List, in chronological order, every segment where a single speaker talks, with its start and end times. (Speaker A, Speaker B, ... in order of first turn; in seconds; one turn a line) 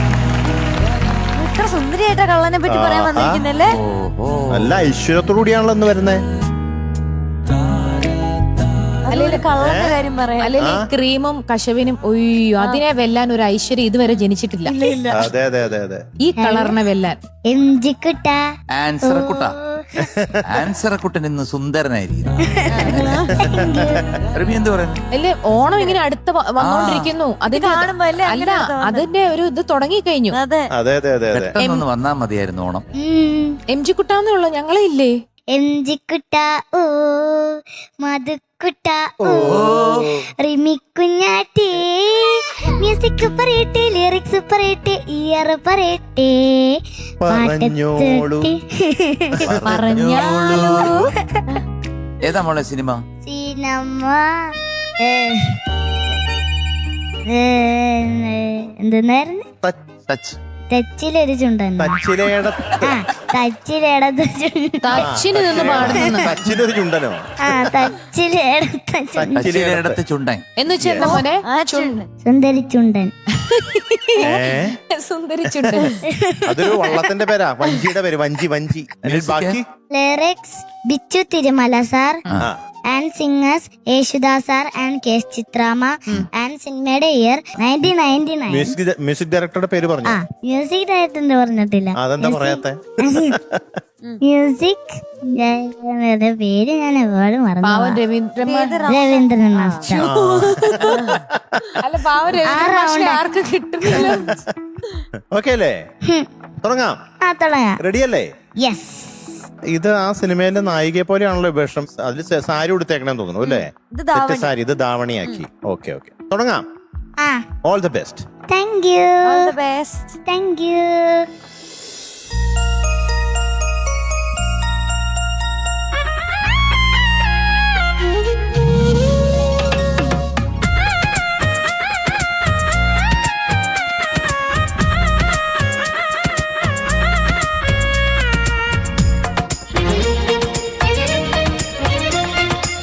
Speaker A: 1.3-3.7
Speaker B: 2.7-3.4
Speaker C: 3.8-4.8
Speaker B: 4.5-6.2
Speaker A: 9.0-10.5
Speaker D: 9.1-9.4
Speaker B: 9.6-9.9
Speaker D: 10.4-14.7
Speaker B: 10.6-10.9
Speaker A: 14.1-15.3
Speaker B: 15.1-16.0
Speaker D: 16.2-17.2
Speaker E: 16.4-16.7
Speaker E: 17.5-18.4
Speaker C: 18.7-19.5
Speaker E: 19.0-20.1
Speaker B: 20.0-20.4
Speaker C: 20.4-23.3
Speaker A: 22.7-23.3
Speaker E: 23.4-24.0
Speaker B: 23.4-24.0
Speaker C: 24.3-25.0
Speaker D: 25.1-30.4
Speaker A: 25.7-26.0
Speaker C: 26.6-27.1
Speaker A: 27.5-29.1
Speaker A: 30.3-30.7
Speaker B: 30.7-31.5
Speaker C: 31.3-32.9
Speaker E: 33.0-33.6
Speaker D: 33.7-35.1
Speaker E: 35.5-46.8
Speaker B: 39.2-39.8
Speaker C: 39.4-40.1
Speaker B: 47.2-48.5
Speaker E: 47.3-49.4
Speaker B: 49.4-49.8
Speaker C: 49.5-51.0
Speaker D: 49.6-51.1
Speaker C: 52.2-53.0
Speaker E: 53.2-54.3
Speaker E: 55.0-55.6
Speaker E: 57.3-59.4
Speaker C: 60.1-60.4
Speaker E: 60.7-62.0
Speaker B: 61.8-63.0
Speaker E: 62.8-65.0
Speaker D: 64.8-66.3
Speaker B: 65.0-67.7
Speaker E: 65.6-66.2
Speaker C: 65.8-66.1
Speaker E: 67.4-69.5
Speaker B: 69.2-70.0
Speaker C: 69.4-70.4
Speaker D: 70.6-72.0
Speaker B: 70.8-71.2
Speaker A: 71.0-72.0
Speaker E: 72.2-73.1
Speaker D: 73.5-76.0
Speaker B: 74.2-74.8
Speaker B: 75.6-75.9
Speaker E: 76.2-77.0
Speaker B: 76.5-79.7
Speaker C: 79.0-79.6
Speaker E: 79.9-82.2
Speaker E: 82.9-88.7
Speaker B: 88.5-90.2
Speaker E: 90.1-93.3
Speaker B: 92.0-93.6
Speaker E: 94.2-98.0
Speaker D: 97.6-98.9
Speaker A: 98.4-99.9
Speaker E: 98.9-100.1
Speaker D: 99.8-101.0
Speaker B: 100.0-101.6
Speaker A: 100.8-101.2
Speaker D: 101.8-104.4
Speaker E: 102.4-103.2
Speaker B: 103.9-104.2
Speaker B: 105.3-105.8
Speaker B: 106.6-107.0
Speaker E: 107.2-107.8
Speaker B: 107.8-108.3
Speaker E: 108.6-109.3
Speaker B: 109.7-116.6
Speaker A: 113.4-114.5
Speaker E: 117.2-117.4
Speaker B: 117.6-118.2
Speaker E: 118.5-119.5
Speaker A: 119.2-120.2
Speaker E: 120.2-121.3